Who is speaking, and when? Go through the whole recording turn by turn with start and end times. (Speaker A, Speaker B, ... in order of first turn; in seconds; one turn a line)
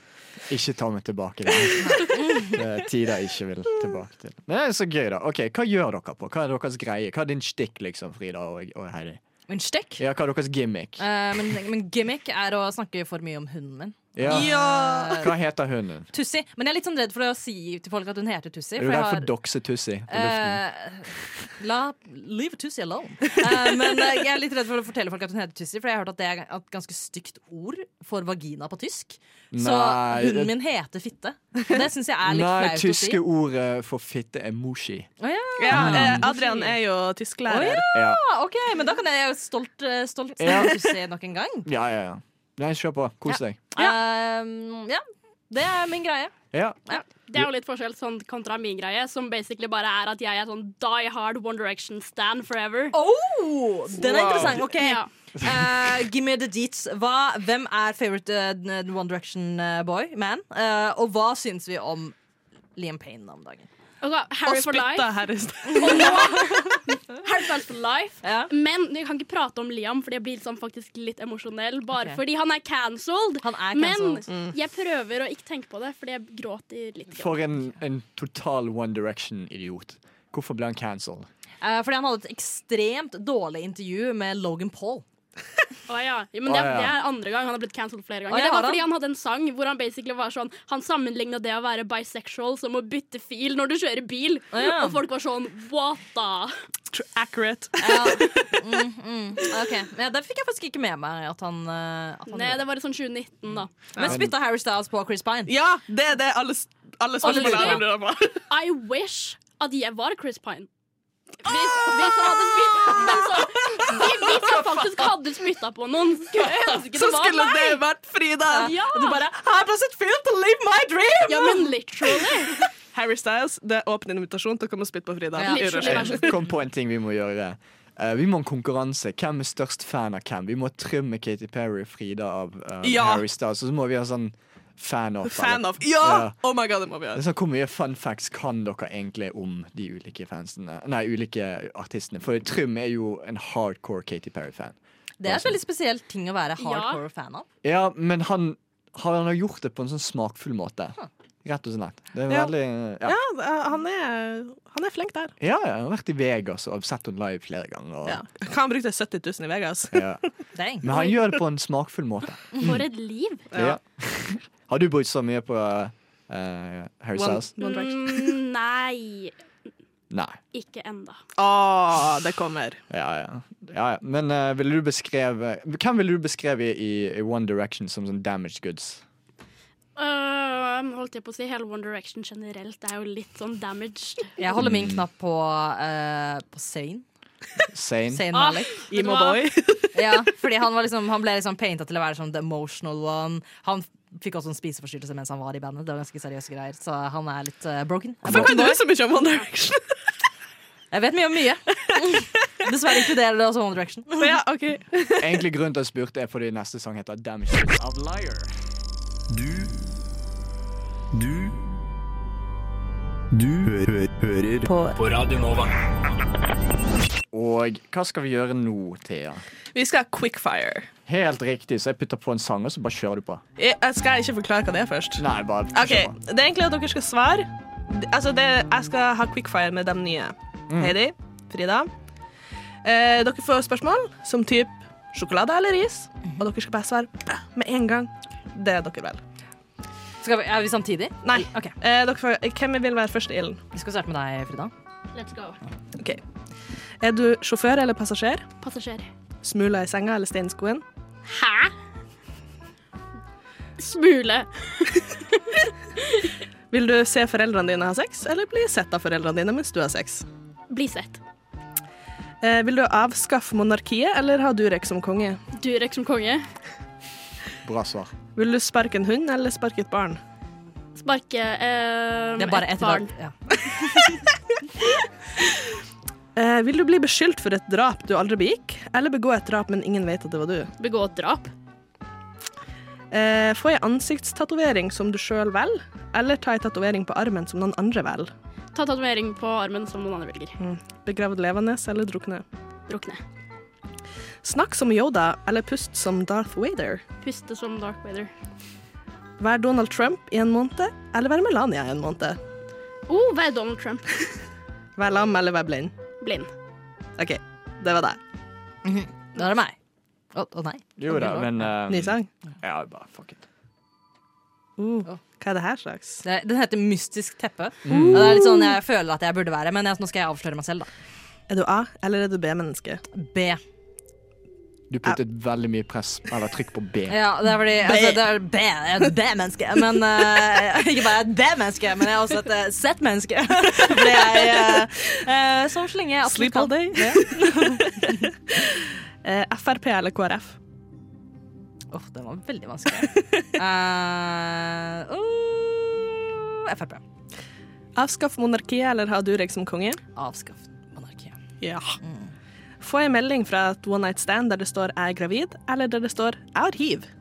Speaker A: 0.5-9.2
Speaker B: 1.8-2.6
Speaker B: 9.5-10.0
Speaker A: 10.0-11.0
Speaker B: 11.0-15.3
Speaker A: 14.1-14.6
Speaker C: 14.2-15.2
Speaker A: 15.1-16.1
Speaker B: 16.1-19.3
Speaker A: 18.8-20.6
Speaker B: 20.1-33.2
Speaker A: 29.5-30.5
Speaker A: 32.2-35.1
Speaker B: 35.2-36.8
Speaker C: 35.6-37.8
Speaker A: 35.7-36.3
Speaker B: 37.5-41.7
Speaker A: 37.9-38.2
Speaker A: 40.4-40.8
Speaker A: 41.6-43.6
Speaker B: 43.7-46.3
Speaker A: 46.5-46.8
Speaker D: 46.9-53.0
Speaker B: 52.9-62.1
Speaker C: 54.0-54.6
Speaker D: 54.2-55.1
Speaker B: 62.8-63.7
Speaker D: 64.0-65.1
Speaker C: 64.4-66.8
Speaker B: 65.7-66.8
Speaker D: 65.8-77.4
Speaker B: 68.2-68.5
Speaker B: 73.4-74.3
Speaker A: 77.1-81.3
Speaker B: 81.6-85.0
Speaker D: 85.9-96.5
Speaker A: 86.5-87.0
Speaker B: 88.3-88.8
Speaker B: 94.5-95.0
Speaker C: 96.9-98.5
Speaker B: 97.8-102.6
Speaker D: 102.3-103.7
Speaker B: 104.0-105.5
Speaker A: 104.0-104.3
Speaker C: 105.5-108.4
Speaker B: 107.2-107.8
Speaker D: 107.2-107.8
Speaker D: 108.5-110.7
Speaker D: 111.4-117.8
Speaker C: 111.8-115.0
Speaker C: 116.3-118.8
Speaker B: 118.5-121.7
Speaker D: 118.5-119.2
Speaker C: 121.2-121.5
Speaker D: 121.2-122.6
Speaker C: 122.5-126.3
Speaker B: 125.4-126.0
Speaker D: 125.4-126.4
Speaker A: 125.8-136.3
Speaker C: 132.8-133.2
Speaker C: 135.2-137.2
Speaker A: 137.1-145.6
Speaker B: 145.2-147.4
Speaker D: 146.6-147.0
Speaker A: 147.6-153.2
Speaker C: 152.3-155.3
Speaker A: 155.4-158.2
Speaker C: 158.1-160.2
Speaker A: 159.9-160.2
Speaker B: 160.5-160.9
Speaker A: 160.8-162.9
Speaker D: 162.5-163.5
Speaker C: 163.5-163.8
Speaker A: 163.5-167.5
Speaker C: 167.2-168.4
Speaker D: 167.6-169.3
Speaker A: 170.1-170.4
Speaker D: 170.5-171.2
Speaker C: 171.4-172.8
Speaker A: 172.9-179.0
Speaker D: 179.9-184.6
Speaker B: 184.4-187.1
Speaker A: 184.6-185.0
Speaker A: 187.7-188.3
Speaker B: 188.1-188.7
Speaker D: 188.3-189.4
Speaker C: 188.9-190.0
Speaker B: 189.9-198.8
Speaker C: 198.2-199.8
Speaker B: 200.9-204.4
Speaker C: 201.9-202.2
Speaker C: 204.2-205.4
Speaker A: 205.2-208.5
Speaker E: 209.3-209.7
Speaker E: 211.1-211.5
Speaker E: 213.3-215.7
Speaker A: 217.3-219.4
Speaker C: 219.7-220.9
Speaker A: 221.1-223.4
Speaker C: 223.6-231.9
Speaker A: 225.2-226.1
Speaker A: 230.7-231.0
Speaker C: 232.8-239.2
Speaker B: 240.2-241.7
Speaker C: 241.2-243.6
Speaker B: 243.7-244.7
Speaker D: 245.1-245.6
Speaker C: 247.0-248.4
Speaker D: 248.6-249.1
Speaker C: 249.4-250.8
Speaker D: 251.3-251.7
Speaker D: 253.8-255.0
Speaker C: 256.7-260.2
Speaker D: 260.7-261.2
Speaker C: 262.4-265.4
Speaker D: 265.5-266.5
Speaker A: 267.6-268.1
Speaker C: 268.4-270.2
Speaker D: 271.0-273.1
Speaker B: 272.4-274.0
Speaker C: 276.4-280.7
Speaker D: 280.8-281.5
Speaker C: 283.1-288.3
Speaker D: 288.7-290.5
Speaker C: 290.6-292.4
Speaker D: 292.9-293.2
Speaker C: 294.4-297.0
Speaker D: 297.2-298.3
Speaker C: 299.4-302.4
Speaker D: 303.1-304.3
Speaker C: 305.0-305.9
Speaker D: 306.2-306.5
Speaker C: 307.2-308.2
Speaker B: 308.8-309.8
Speaker B: 310.3-311.7
Speaker A: 311.0-313.4
Speaker C: 311.9-312.3
Speaker C: 314.8-316.2
Speaker B: 316.2-320.9
Speaker A: 317.8-318.4
Speaker C: 317.9-318.8
Speaker C: 321.5-323.0
Speaker B: 323.1-323.6
Speaker A: 324.9-327.2
Speaker B: 327.1-338.3
Speaker C: 327.9-328.2
Speaker C: 334.2-334.9
Speaker C: 336.3-340.6
Speaker B: 341.9-347.0
Speaker C: 347.9-350.0
Speaker B: 350.1-351.3
Speaker C: 351.6-352.0
Speaker B: 352.0-352.3
Speaker C: 352.8-357.1